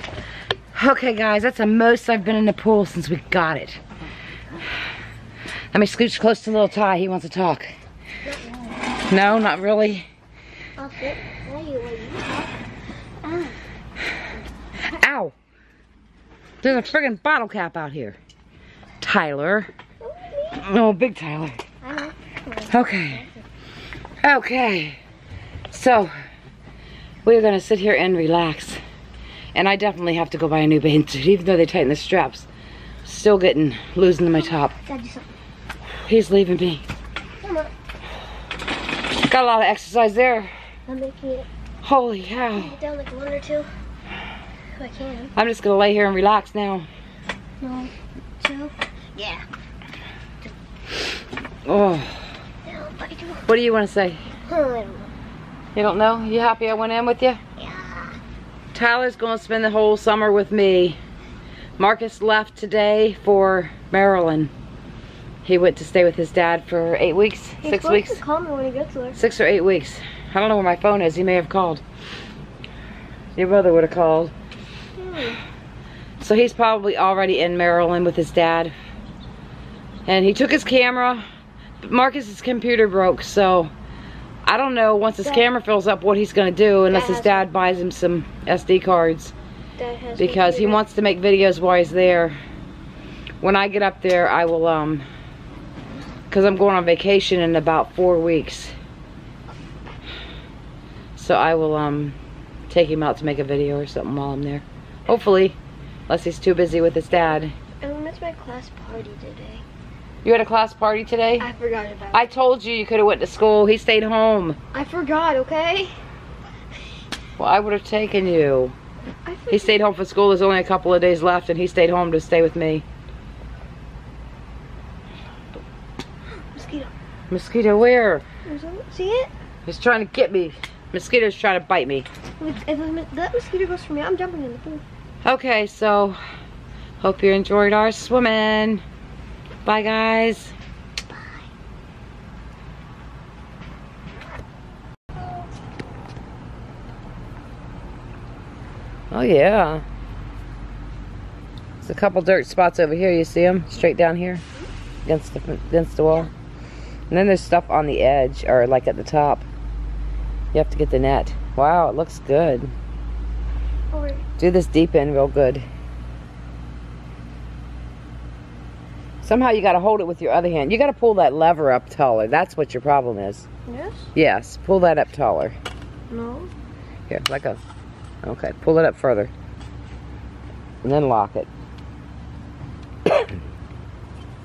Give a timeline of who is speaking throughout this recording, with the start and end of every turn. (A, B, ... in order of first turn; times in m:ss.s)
0:00.7-0:03.8 A
0:05.7-0:07.7 A
0:08.2-0:08.8 B
0:09.1-0:10.0 A
0:10.8-0:12.5 B
0:13.2-0:13.6 B
0:14.8-0:15.3 A
0:16.6-0:18.2 A
0:19.0-0:19.7 A
0:20.0-0:20.7 B
0:20.6-0:21.6 A
0:21.8-0:23.4 B
0:22.7-0:23.2 A
0:24.2-0:25.0 A
0:25.7-0:26.1 A
0:27.2-0:28.8 A
0:29.5-0:32.5 A
0:33.0-0:34.7 A
0:34.7-0:35.3 B
0:36.0-0:36.8 A
0:37.4-0:37.7 B
0:39.2-0:40.5 A
0:40.9-0:41.5 B
0:41.8-0:42.8 A
0:42.5-0:43.7 B
0:44.8-0:45.3 B
0:45.3-0:46.9 A
0:47.6-0:49.4 B
0:51.6-0:52.3 A
0:52.6-0:53.5 B
0:53.5-0:54.2 A
0:54.5-0:55.1 B
0:55.7-0:57.4 A
0:57.6-0:58.2 B
0:58.7-1:01.0 A
1:01.8-1:04.5 A
1:05.4-1:08.2 A
1:07.6-1:09.2 B
1:09.1-1:11.8 A
1:13.4-1:14.3 A
1:15.0-1:15.4 B
1:16.2-1:18.7 A
1:20.0-1:21.2 A
1:21.8-1:23.7 A
1:24.4-1:29.3 A
1:26.9-1:27.5 B
1:29.8-1:30.8 B
1:30.2-1:32.4 A
1:33.4-1:35.0 A
1:36.3-1:38.7 A
1:41.2-1:42.2 A
1:42.7-1:45.6 A
1:46.1-1:47.5 A
1:47.8-1:49.6 B
1:50.2-1:51.5 A
1:51.4-1:52.2 B
1:52.1-1:54.6 A
1:54.7-1:56.0 B
1:57.4-1:58.7 A
1:59.2-1:59.8 B
1:59.5-2:02.8 A
2:06.4-2:06.9 B
2:07.3-2:08.2 A
2:08.4-2:09.3 B
2:09.6-2:12.1 A
2:12.4-2:14.8 B
2:15.2-2:16.2 A
2:17.0-2:18.8 A
2:19.6-2:20.5 A
2:25.2-2:25.4 B
2:29.1-2:29.8 A
2:31.8-2:34.4 A
2:35.0-2:36.3 A
2:37.1-2:39.4 A
2:40.5-2:42.7 A
2:43.9-2:44.2 B
2:44.4-2:45.6 A
2:49.2-2:53.5 A
2:53.7-2:54.1 B
2:54.1-2:55.5 A
2:56.1-2:56.5 B
2:57.1-2:57.6 A
2:58.2-2:59.3 A
3:00.8-3:01.5 A